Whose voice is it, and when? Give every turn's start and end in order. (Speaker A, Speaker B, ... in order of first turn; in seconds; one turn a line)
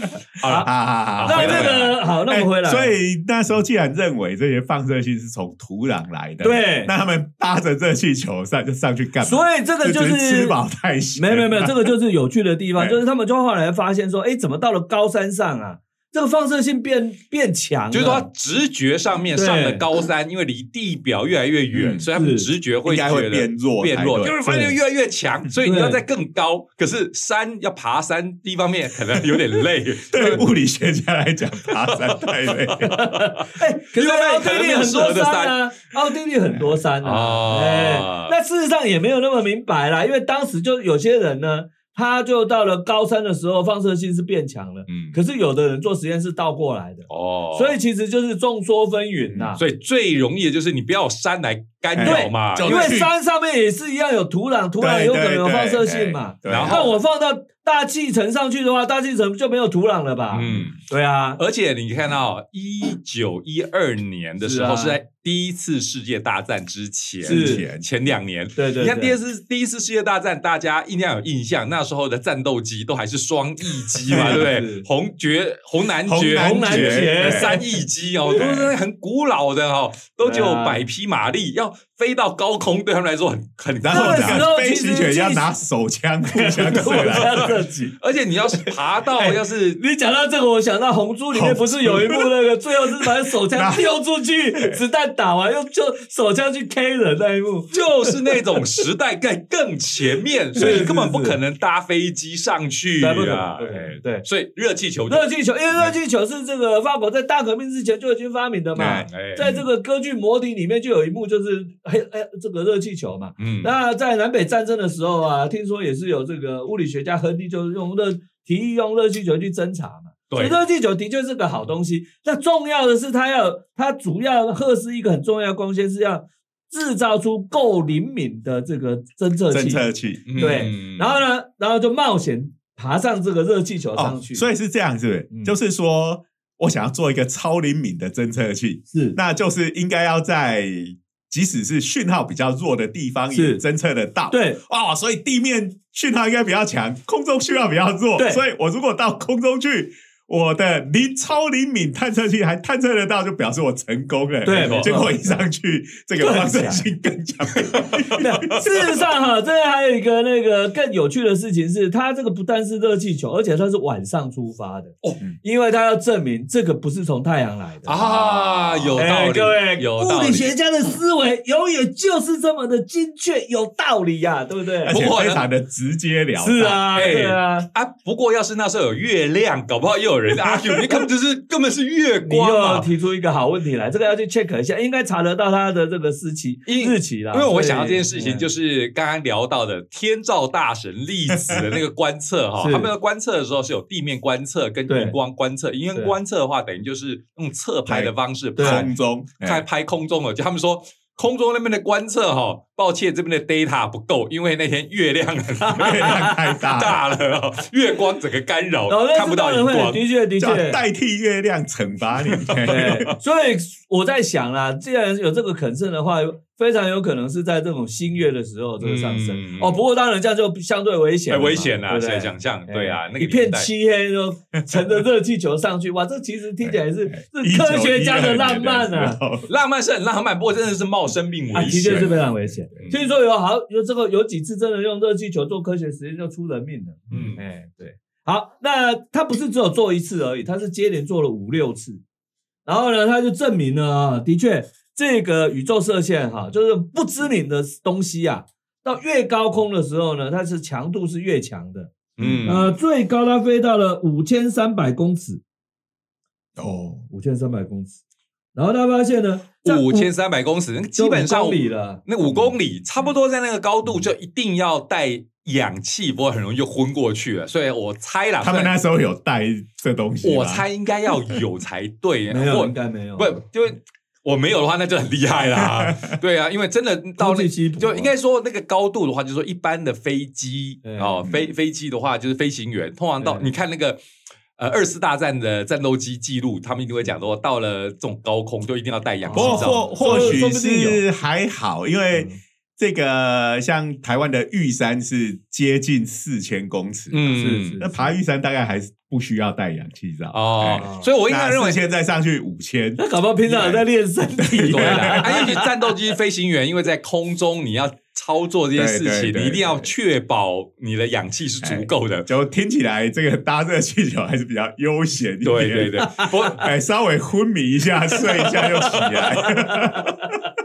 Speaker A: 0.4-1.9
Speaker B: 0.4-0.7
Speaker C: 0.6-11.9
Speaker B: 1.2-3.0
Speaker B: 6.4-6.9
Speaker B: 9.2-10.6
Speaker B: 11.2-18.3
Speaker A: 17.9-30.4
Speaker B: 19.4-19.9
Speaker C: 21.7-22.1
Speaker B: 22.1-22.5
Speaker C: 22.9-24.6
Speaker B: 24.4-24.8
Speaker B: 25.6-26.0
Speaker C: 30.1-32.9
Speaker A: 31.7-33.2
Speaker B: 32.8-49.6
Speaker A: 33.9-35.6
Speaker C: 36.5-36.8
Speaker A: 37.0-38.3
Speaker A: 44.9-45.2
Speaker A: 47.1-47.8
Speaker C: 49.3-49.5
Speaker A: 49.6-53.0
Speaker C: 52.0-53.1
Speaker B: 52.0-61.4
Speaker C: 54.8-56.9
Speaker A: 56.5-56.9
Speaker A: 60.3-60.8
Speaker C: 60.4-60.7
Speaker A: 61.4-84.4
Speaker B: 64.4-65.0
Speaker B: 67.2-67.6
Speaker C: 67.2-67.9
Speaker B: 68.6-69.2
Speaker B: 74.1-74.9
Speaker C: 74.1-74.5
Speaker C: 76.0-77.6
Speaker B: 76.3-77.7
Speaker C: 78.3-78.7
Speaker B: 80.2-80.8
Speaker C: 83.8-87.5
Speaker B: 83.9-85.5
Speaker B: 86.3-88.0
Speaker A: 86.8-89.8
Speaker B: 89.2-98.2
Speaker C: 91.3-92.3
Speaker C: 93.0-93.9
Speaker C: 94.5-94.8
Speaker A: 97.7-105.9
Speaker B: 100.5-101.4
Speaker C: 100.6-100.9
Speaker B: 103.0-104.2
Speaker B: 105.1-134.4
Speaker C: 108.8-109.7
Speaker A: 109.1-109.5
Speaker A: 113.4-113.7
Speaker A: 120.3-120.6
Speaker C: 129.5-130.7
Speaker A: 130.3-131.2
Speaker C: 134.0-159.0
Speaker B: 135.3-135.6
Speaker B: 138.9-139.2
Speaker B: 143.3-143.6
Speaker B: 144.3-144.6
Speaker B: 148.2-148.4
Speaker B: 154.4-155.4
Speaker A: 154.5-154.9
Speaker B: 156.2-156.8
Speaker A: 157.6-158.6
Speaker B: 158.2-168.1
Speaker A: 167.9-170.5
Speaker C: 168.0-169.1
Speaker B: 168.9-175.0
Speaker C: 174.8-177.1
Speaker A: 174.9-175.5
Speaker B: 176.4-177.7
Speaker A: 176.9-182.9
Speaker B: 182.2-188.5
Speaker A: 186.7-210.0
Speaker C: 191.3-191.8
Speaker B: 192.6-192.9
Speaker B: 194.9-195.2
Speaker C: 197.9-199.7
Speaker B: 198.6-198.9
Speaker B: 205.7-206.3
Speaker C: 205.8-207.0
Speaker B: 208.9-210.8
Speaker C: 210.4-213.1
Speaker A: 212.3-213.1
Speaker B: 212.7-229.2
Speaker A: 218.8-219.8
Speaker A: 221.3-223.7
Speaker C: 226.6-229.5
Speaker A: 229.5-232.2
Speaker B: 231.5-242.0
Speaker C: 231.8-232.9
Speaker A: 232.8-233.0
Speaker A: 237.1-237.4
Speaker B: 242.7-251.9
Speaker A: 252.2-252.8
Speaker C: 252.2-252.6
Speaker B: 252.4-255.4
Speaker C: 256.6-257.1
Speaker B: 257.1-258.0
Speaker B: 258.6-260.1
Speaker A: 259.6-268.8
Speaker B: 261.0-262.0
Speaker C: 262.3-263.1
Speaker C: 268.4-270.6
Speaker A: 270.2-284.0
Speaker B: 272.3-273.4
Speaker C: 275.6-276.1
Speaker B: 277.2-278.1
Speaker B: 280.8-281.2
Speaker C: 281.2-281.5
Speaker B: 283.2-283.5
Speaker A: 284.6-290.4
Speaker B: 289.2-291.0
Speaker C: 289.3-303.9
Speaker B: 292.1-292.4
Speaker A: 297.1-297.8
Speaker B: 297.3-298.1
Speaker A: 300.3-301.8
Speaker B: 300.8-301.1
Speaker B: 303.0-305.7
Speaker C: 304.4-305.6
Speaker A: 304.7-312.3
Speaker C: 308.8-309.9
Speaker C: 311.6-320.3
Speaker A: 315.4-316.7
Speaker B: 316.1-316.3
Speaker A: 318.1-319.3
Speaker B: 319.3-320.4